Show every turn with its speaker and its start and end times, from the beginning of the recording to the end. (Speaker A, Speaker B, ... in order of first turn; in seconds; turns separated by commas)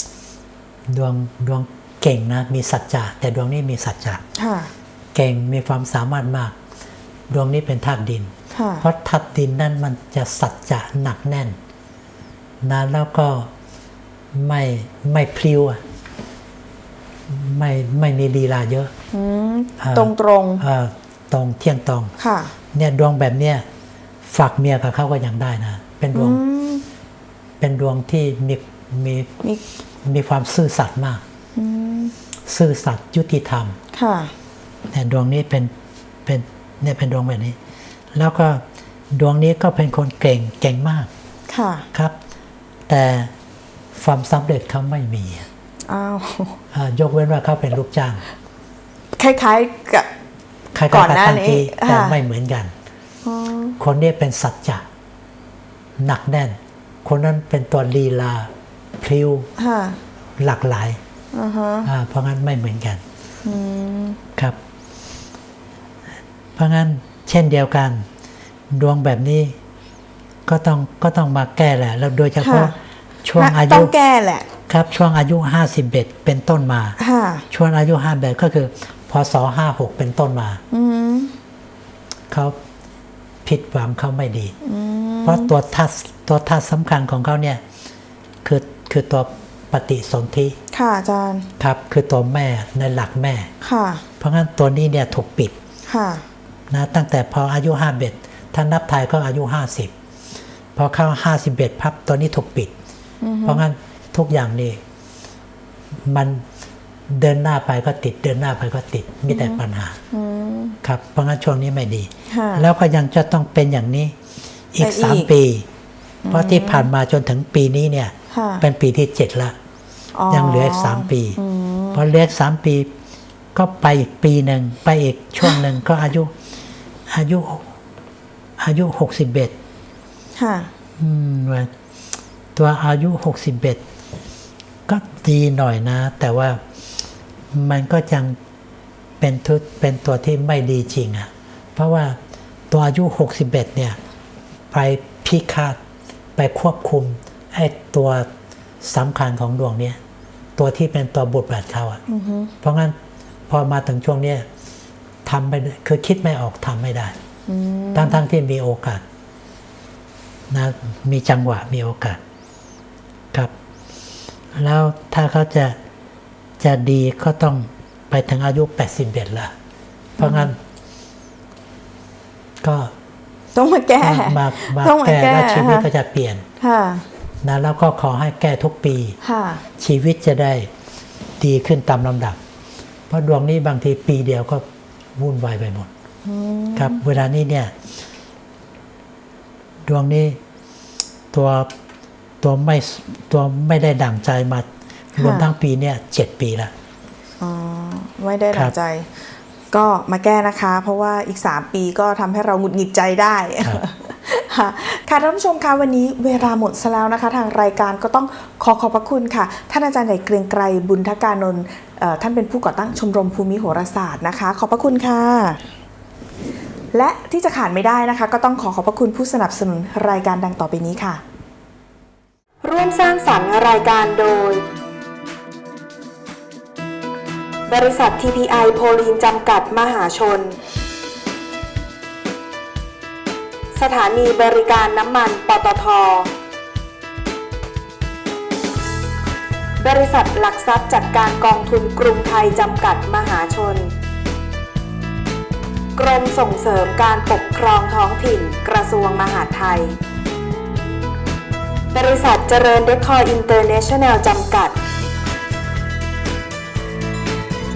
Speaker A: 0.9-4.2, Speaker B: 4.4-4.7, Speaker A: 5.1-6.6, Speaker A: 7.3-11.6, Speaker B: 8.5-8.8, Speaker A: 12.6-13.5, Speaker A: 14.3-15.8, Speaker A: 17.3-18.9, Speaker B: 19.1-20.6, Speaker A: 19.8-22.1, Speaker B: 22.2-22.5, Speaker A: 22.7-23.7, Speaker A: 24.3-26.4, Speaker B: 26.1-26.9, Speaker A: 27.6-29.3, Speaker A: 30.0-31.2, Speaker B: 31.6-32.1, Speaker A: 32.5-33.8, Speaker B: 33.9-34.3, Speaker A: 34.9-35.7, Speaker A: 36.3-37.6, Speaker A: 38.1-41.1, Speaker B: 41.5-41.9, Speaker A: 42.9-43.3, Speaker A: 44.0-45.5, Speaker B: 45.9-46.6, Speaker A: 46.7-48.2, Speaker B: 49.2-50.1, Speaker A: 50.7-52.7, Speaker B: 50.9-52.2, Speaker B: 53.2-53.8, Speaker A: 53.8-54.9, Speaker A: 56.0-59.5, Speaker B: 59.6-60.0, Speaker A: 60.4-61.0, Speaker B: 61.3-61.9, Speaker A: 61.9-63.0, Speaker B: 63.4-64.2, Speaker A: 66.6-68.1, Speaker A: 68.7-69.6, Speaker A: 70.5-73.9, Speaker B: 72.4-72.7, Speaker B: 73.4-74.5, Speaker A: 74.7-77.0, Speaker B: 77.0-77.5, Speaker A: 77.5-80.6, Speaker B: 80.7-81.3, Speaker A: 82.3-82.6, Speaker A: 83.5-84.5, Speaker B: 84.6-85.5, Speaker A: 85.2-87.6, Speaker A: 88.4-90.6, Speaker B: 90.7-91.5, Speaker A: 91.6-93.5, Speaker B: 93.6-94.0, Speaker A: 94.2-95.6, Speaker B: 95.9-96.3, Speaker A: 96.7-99.9, Speaker A: 100.8-102.7, Speaker B: 103.2-103.6, Speaker A: 103.5-104.8, Speaker A: 106.1-106.4, Speaker A: 107.1-110.0, Speaker B: 109.3-109.6, Speaker B: 110.1-110.8, Speaker A: 110.8-114.2, Speaker B: 112.3-112.7, Speaker A: 114.7-115.7, Speaker B: 114.8-115.3, Speaker B: 116.2-116.9, Speaker A: 116.3-119.6, Speaker B: 118.3-118.6, Speaker B: 120.2-122.0, Speaker A: 120.3-121.4, Speaker A: 121.9-122.9, Speaker A: 123.5-126.3, Speaker A: 127.1-127.7, Speaker A: 128.6-129.6, Speaker B: 130.4-130.7, Speaker A: 131.0-131.7, Speaker A: 132.6-133.8, Speaker A: 134.9-136.6, Speaker A: 137.5-138.4, Speaker A: 139.2-142.2, Speaker A: 142.7-144.0, Speaker A: 144.7-145.8, Speaker A: 146.4-148.3, Speaker A: 148.8-150.0, Speaker A: 150.6-152.0, Speaker B: 152.1-152.5, Speaker A: 152.6-153.0, Speaker A: 153.5-154.5, Speaker A: 155.2-157.2, Speaker B: 157.5-158.2, Speaker A: 157.9-159.0, Speaker A: 160.5-162.2, Speaker A: 164.5-165.8, Speaker A: 166.6-169.5, Speaker B: 170.2-170.5, Speaker A: 170.2-170.6, Speaker A: 172.6-172.9, Speaker B: 173.6-175.9, Speaker A: 174.0-176.4, Speaker B: 176.6-177.1, Speaker A: 177.4-179.2, Speaker B: 179.2-179.6, Speaker A: 179.8-180.7, Speaker A: 181.4-182.4, Speaker A: 183.1-184.6, Speaker A: 185.2-185.9, Speaker B: 186.2-187.0, Speaker A: 186.8-187.7, Speaker A: 189.9-190.4, Speaker A: 191.3-191.7, Speaker A: 192.4-196.7, Speaker B: 195.2-195.5, Speaker B: 197.4-215.6, Speaker B: 216.9-221.2, Speaker B: 222.6-224.6, Speaker B: 227.7-230.6, Speaker B: 233.7-236.3, Speaker B: 239.8-243.9, Speaker B: 245.9-250.0, Speaker B: 251.9-254.8